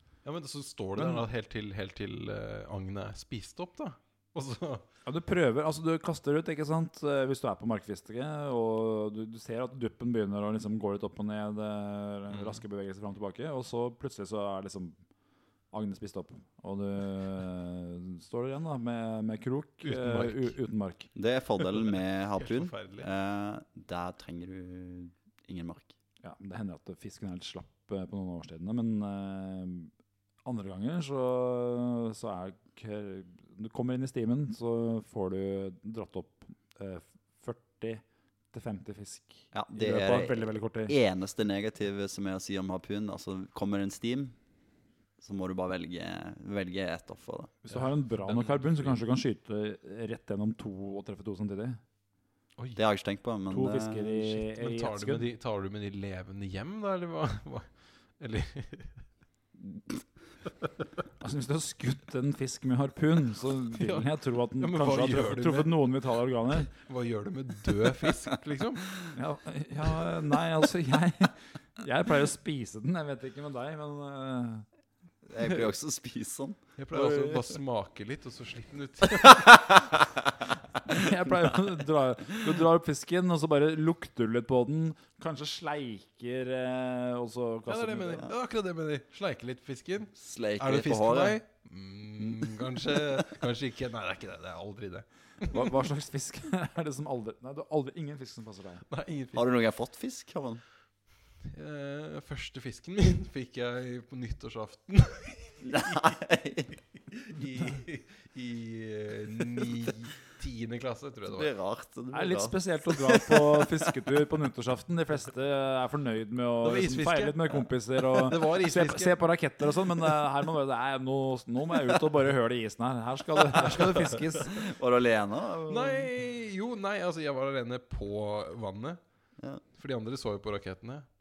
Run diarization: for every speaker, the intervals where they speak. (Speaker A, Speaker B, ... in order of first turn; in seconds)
Speaker A: 0.2-4.8, 12.3-12.6, 19.8-20.5, 21.6-23.1, 47.7-49.0, 54.4-57.6, 58.2-59.0, 63.7-65.8, 66.6-69.0, 75.4-75.7, 76.8-79.6, 87.7-95.7, 98.9-99.5, 101.5-106.1, 107.1-111.5, 116.6-119.2, 125.7-129.0, 129.6-131.1
Speaker B: 0.9-1.2, 5.0-15.0, 15.7-21.1, 26.2-29.9, 30.4-41.0, 47.6-51.8, 53.5-55.3, 61.2-66.7, 69.1-74.7, 80.8-88.3, 95.4-98.8, 112.1-124.7
Speaker C: 21.1-25.9, 39.5-44.4, 45.2-47.5, 52.7-54.4, 75.2-77.6, 90.2-91.4, 99.3-100.6, 105.6-106.8, 111.3-113.7, 124.4-126.1